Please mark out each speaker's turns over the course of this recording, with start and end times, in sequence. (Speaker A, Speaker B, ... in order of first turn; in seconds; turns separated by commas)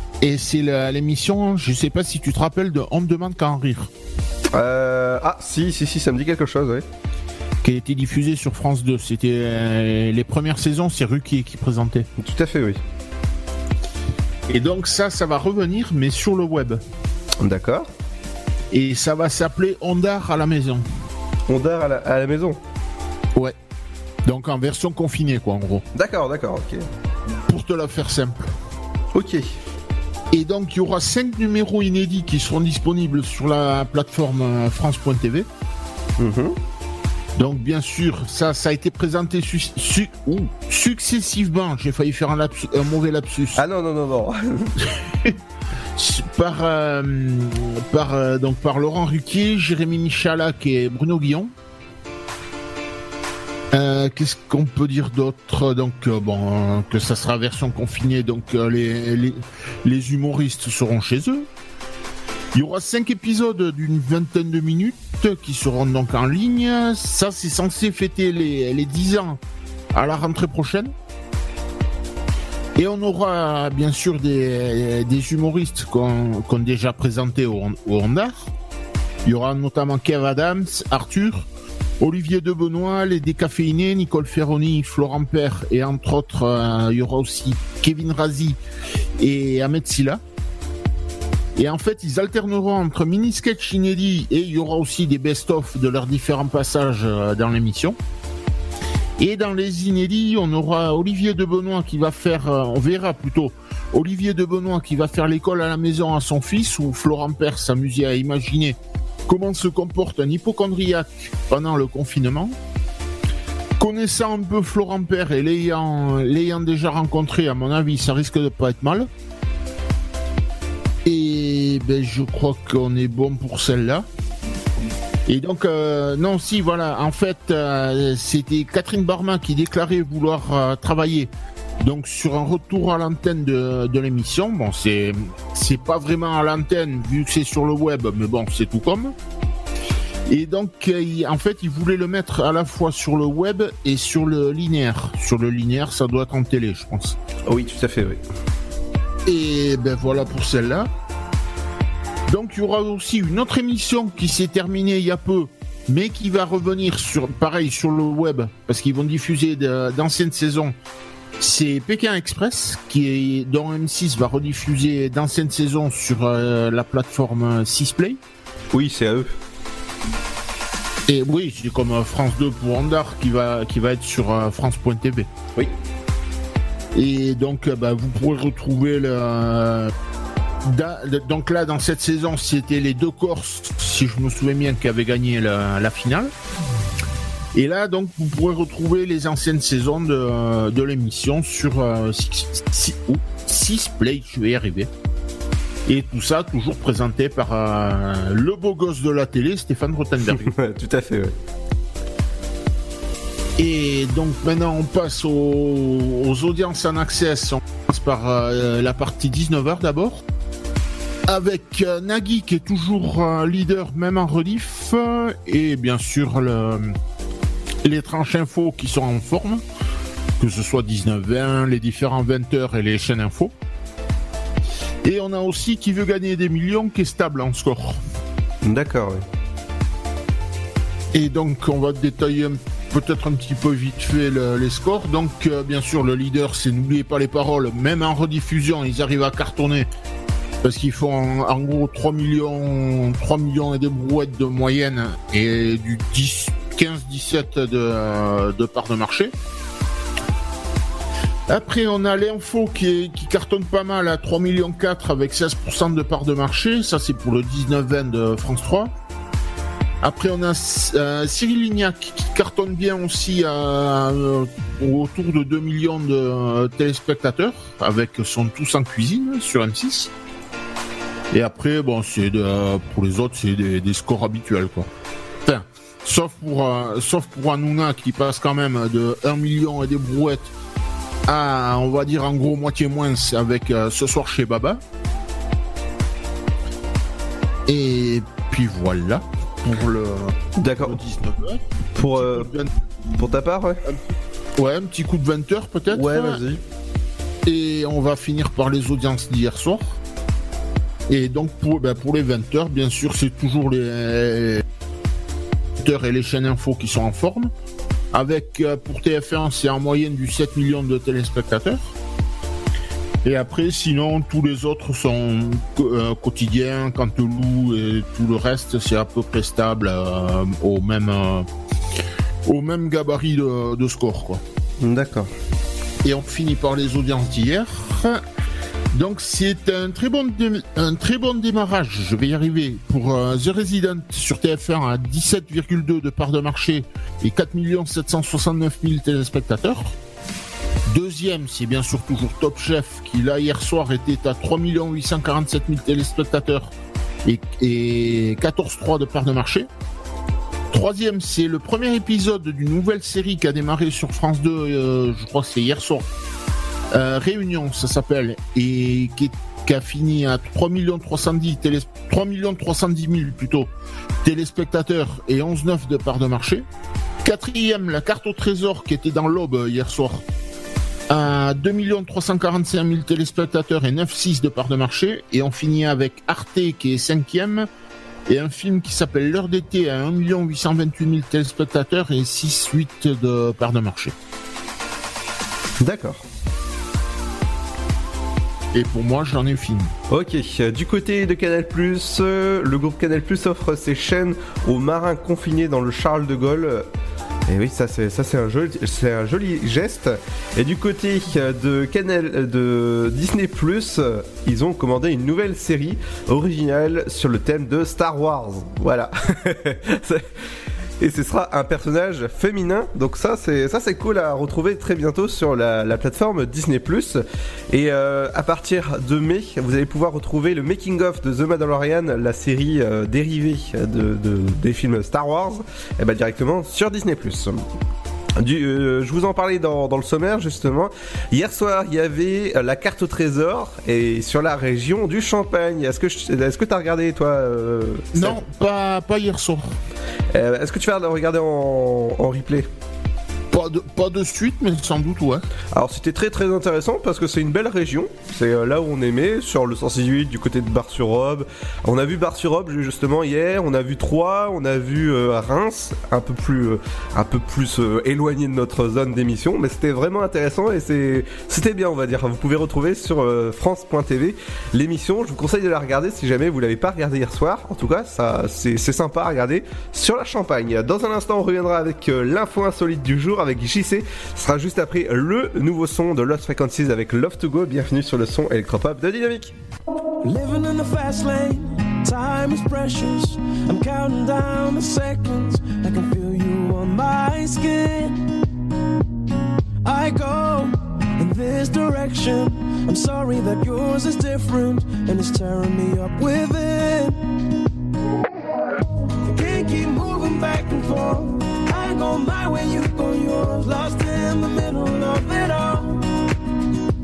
Speaker A: 0.2-3.9, Speaker B: 4.5-6.8, Speaker A: 7.6-12.1, Speaker B: 12.2-12.8, Speaker A: 14.5-16.8, Speaker B: 17.4-17.9, Speaker A: 18.7-20.8, Speaker B: 21.5-22.6, Speaker A: 24.3-25.8, Speaker B: 25.9-26.8, Speaker A: 27.5-28.5, Speaker B: 29.1-29.5, Speaker A: 30.3-35.5, Speaker B: 36.2-36.6, Speaker A: 37.4-43.6, Speaker B: 43.6-44.7, Speaker A: 46.0-51.5, Speaker A: 53.7-61.5, Speaker A: 62.5-69.4, Speaker A: 69.9-70.9, Speaker A: 72.8-78.5, Speaker A: 79.3-81.5, Speaker A: 82.0-88.6, Speaker A: 89.2-90.2, Speaker A: 91.6-98.0, Speaker A: 99.2-112.5, Speaker A: 113.8-119.1, Speaker A: 121.0-124.0, Speaker A: 125.3-131.3, Speaker A: 131.8-139.1, Speaker A: 140.3-147.2, Speaker B: 147.5-148.2, Speaker A: 149.3-150.9, Speaker A: 152.3-160.7, Speaker A: 161.4-168.2, Speaker B: 168.7-169.3, Speaker A: 171.1-175.3, Speaker A: 176.9-179.9, Speaker A: 180.7-186.3, Speaker A: 187.6-194.9, Speaker A: 195.9-200.5, Speaker B: 200.2-201.3, Speaker A: 203.6-210.2, Speaker A: 211.3-216.9, Speaker A: 217.8-219.6, Speaker A: 220.4-223.5, Speaker A: 225.1-228.0, Speaker B: 228.6-229.2, Speaker A: 231.1-239.9, Speaker A: 240.6-249.3, Speaker A: 251.5-258.9, Speaker A: 260.0-270.1, Speaker A: 271.3-274.9, Speaker A: 275.4-280.5, Speaker A: 281.3-284.8, Speaker A: 287.7-292.7, Speaker B: 290.6-291.0, Speaker B: 292.0-292.5, Speaker B: 293.2-293.8, Speaker A: 294.6-296.4, Speaker B: 295.9-296.6, Speaker A: 297.5-300.0, Speaker A: 301.1-304.6, Speaker A: 305.8-307.5, Speaker A: 308.1-311.9, Speaker A: 313.2-321.5, Speaker A: 322.5-324.4, Speaker B: 324.8-325.3, Speaker A: 326.0-328.2, Speaker A: 328.9-339.9, Speaker A: 340.9-346.7, Speaker A: 347.3-349.7, Speaker A: 350.7-356.1, Speaker A: 356.9-363.7, Speaker A: 364.2-366.7, Speaker A: 367.2-370.2, Speaker A: 371.1-377.7, Speaker A: 378.3-384.1, Speaker B: 385.8-386.2, Speaker A: 388.7-389.9, Speaker B: 390.1-396.9, Speaker B: 397.5-410.2, Speaker B: 411.0-427.6, Speaker B: 428.4-438.4, Speaker A: 438.1-439.7, Speaker B: 440.3-442.7, Speaker A: 443.5-445.4, Speaker B: 445.7-479.5, Speaker C: 480.2-488.2, Speaker C: 489.8-497.2, Speaker C: 499.3-506.0